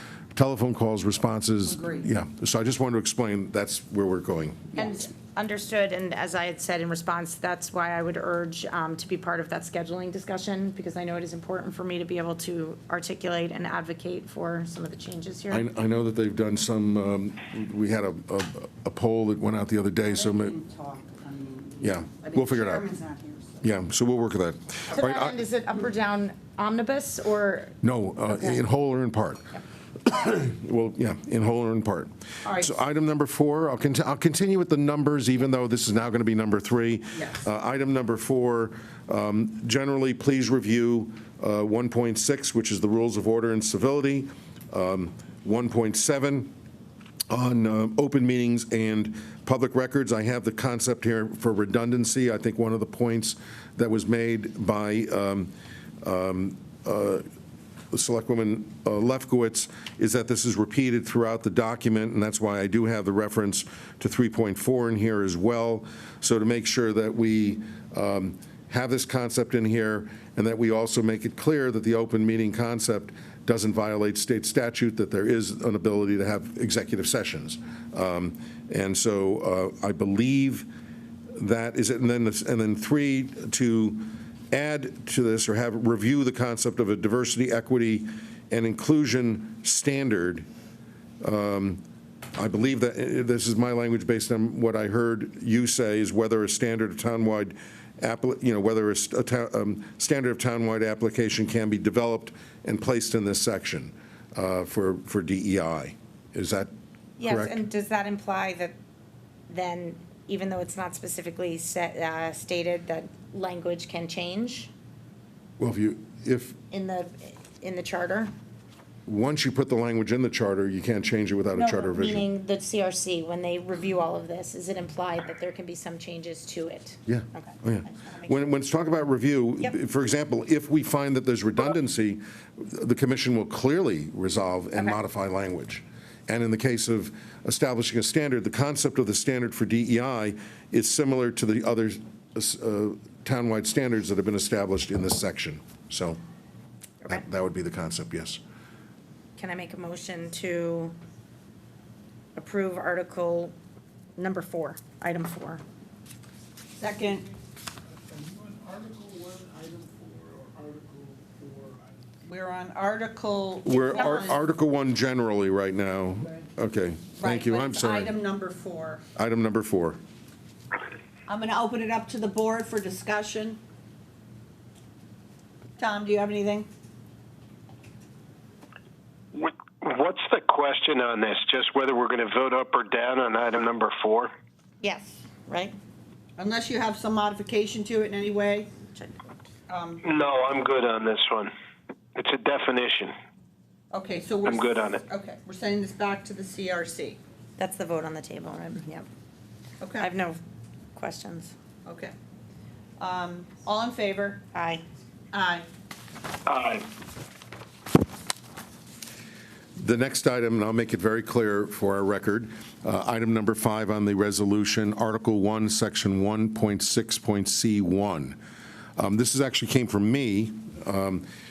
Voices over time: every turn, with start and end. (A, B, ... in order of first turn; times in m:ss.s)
0:00.3-0:04.8 A
0:01.7-0:02.0 B
0:04.7-0:15.6 C
0:15.5-0:20.5 A
0:20.0-0:23.6 B
0:21.8-0:22.8 A
0:23.6-0:25.3 A
0:24.9-0:28.6 C
0:27.8-0:46.5 A
0:32.4-0:32.7 B
0:37.1-0:37.4 B
0:47.3-0:57.2 A
0:57.9-1:20.7 A
1:21.3-1:30.4 A
1:31.2-1:31.8 A
1:32.3-1:46.7 A
1:47.2-1:48.7 C
1:47.2-1:47.6 A
1:49.5-1:54.7 C
1:55.6-1:56.6 A
1:56.7-1:58.3 C
1:59.1-2:02.3 A
2:01.5-2:08.5 C
2:07.1-2:26.2 A
2:27.1-2:28.4 A
2:29.4-2:30.9 C
2:32.4-2:33.5 C
2:34.2-2:35.6 C
2:36.8-2:37.3 B
2:38.1-2:41.8 D
2:42.2-2:44.4 B
2:43.6-2:48.1 A
2:47.2-2:49.0 B
2:49.2-2:50.0 A
2:51.3-2:53.6 B
2:55.8-2:56.7 B
2:59.3-3:04.3 E
3:04.8-3:05.8 C
3:06.4-3:08.7 B
3:09.7-3:10.0 B
3:10.0-3:11.5 E
3:12.1-3:13.1 E
3:13.9-3:17.2 B
3:14.4-3:15.0 E
3:17.6-3:19.1 C
3:19.8-3:20.1 B
3:20.0-3:20.4 C
3:20.9-3:21.5 C
3:21.8-3:22.1 B
3:23.0-3:24.4 B
3:24.5-3:24.8 C
3:25.3-3:25.6 B
3:26.4-3:26.8 E
3:29.8-3:38.4 A
3:39.0-3:41.3 A